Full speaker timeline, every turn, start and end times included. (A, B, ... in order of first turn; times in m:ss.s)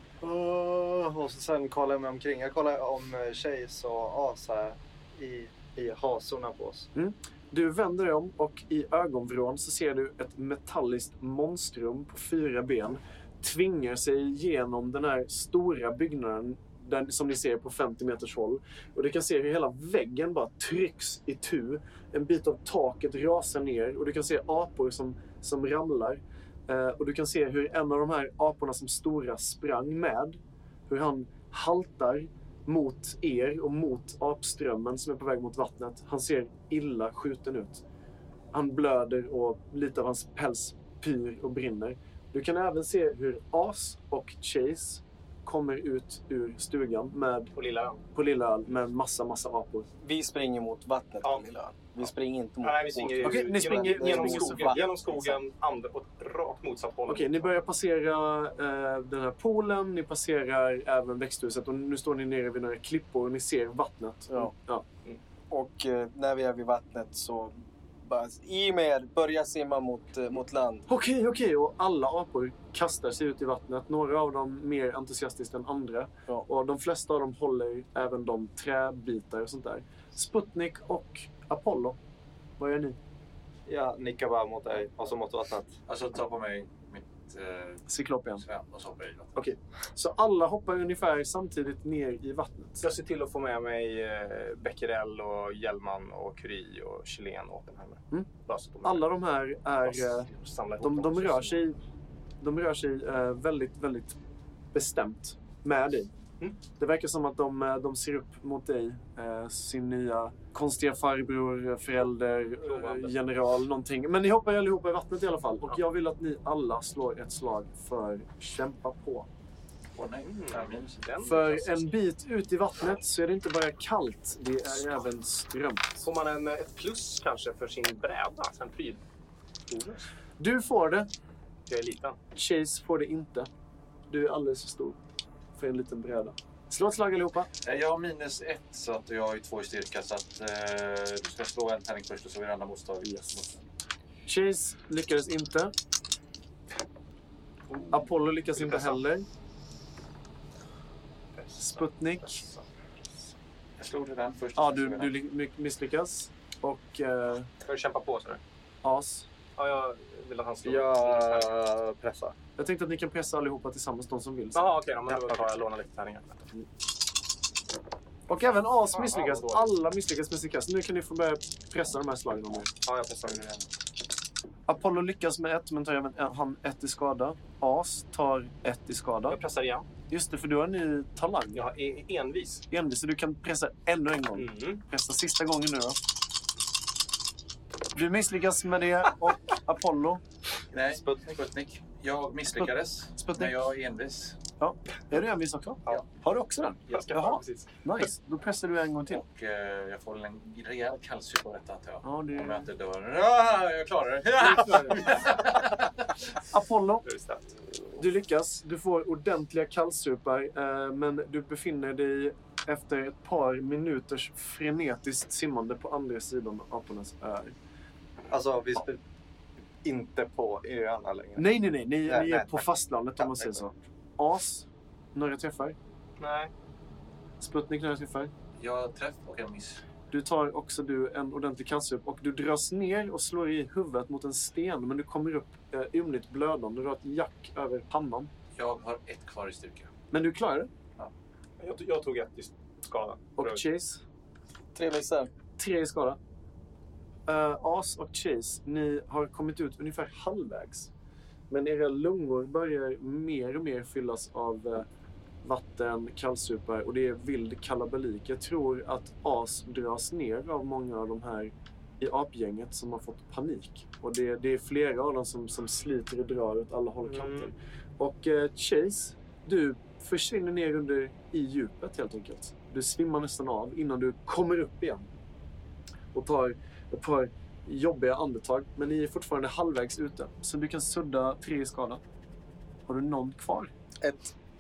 0:00.2-0:06.9 A
0:07.0-0:37.8 B
0:38.5-0:47.5 B
0:47.6-0:48.0 C
0:48.1-0:49.9 B
0:50.0-0:55.4 D
0:51.2-0:51.5 C
0:52.6-0:57.5 C
0:53.2-0:54.8 B
0:57.1-1:04.8 B
1:05.5-1:10.9 D
1:10.9-1:22.0 B
1:22.6-1:23.0 B
1:23.7-1:25.8 A
1:25.9-1:27.8 E
1:27.9-1:28.4 B
1:28.4-1:29.4 E
1:29.4-1:32.9 B
1:32.8-1:39.1 C
1:38.8-1:41.8 B
1:39.8-1:41.6 C
1:42.4-1:44.2 B
1:44.7-1:46.1 B
1:46.7-1:59.3 B
1:52.6-1:53.2 C
2:00.0-2:01.1 E
2:00.3-2:01.9 C
2:01.2-2:06.0 B
2:06.0-2:09.0 C
2:09.7-2:10.1 C
2:10.4-2:11.1 B
2:11.7-2:12.2 C
2:12.4-2:13.5 B
2:14.1-2:15.0 B
2:15.5-2:17.5 B
2:17.6-2:23.6 E
2:23.0-2:23.6 B
2:24.3-2:25.7 B
2:27.9-2:29.3 B
2:28.6-2:29.0 C
2:31.4-2:32.7 C
2:31.6-2:32.4 B
2:33.8-2:35.2 E
2:34.6-2:37.5 B
2:37.6-2:38.4 C
2:38.8-2:39.3 B
2:39.6-2:41.6 C
2:40.6-2:42.3 A
2:42.6-2:44.7 B
2:44.6-2:46.4 C
2:45.1-2:45.6 A
2:48.3-2:52.7 B
2:48.9-2:49.7 C
2:52.9-2:53.6 C
2:54.7-2:59.4 B
2:59.3-2:59.9 C
3:00.1-3:01.6 B
3:01.6-3:02.6 C
3:02.7-3:06.0 B
3:04.4-3:04.8 C
3:08.0-3:10.2 B
3:10.7-3:14.4 E
3:12.6-3:13.7 B
3:14.6-3:19.2 B
3:16.9-3:17.8 C
3:19.1-3:26.0 E
3:22.0-3:22.7 B
3:24.4-3:25.0 B
3:26.5-3:27.0 B
3:27.0-3:27.4 C
3:28.0-3:37.6 B
3:38.3-3:39.0 A
3:39.8-3:42.7 A
3:41.4-3:45.8 B
3:43.2-3:43.6 A
3:46.2-3:46.5 C
3:47.4-3:48.3 B
3:48.6-3:49.8 E
3:50.1-3:58.3 B
3:58.6-3:59.9 E
4:00.1-4:00.7 B
4:01.6-4:03.6 C
4:03.4-4:04.0 B
4:04.8-4:05.3 D
4:05.6-4:06.2 B
4:07.3-4:10.9 B
4:11.5-4:14.9 B
4:15.4-4:35.1 B
4:27.1-4:27.5 C
4:36.1-4:42.0 B
4:42.9-4:43.7 B
4:44.0-4:44.3 D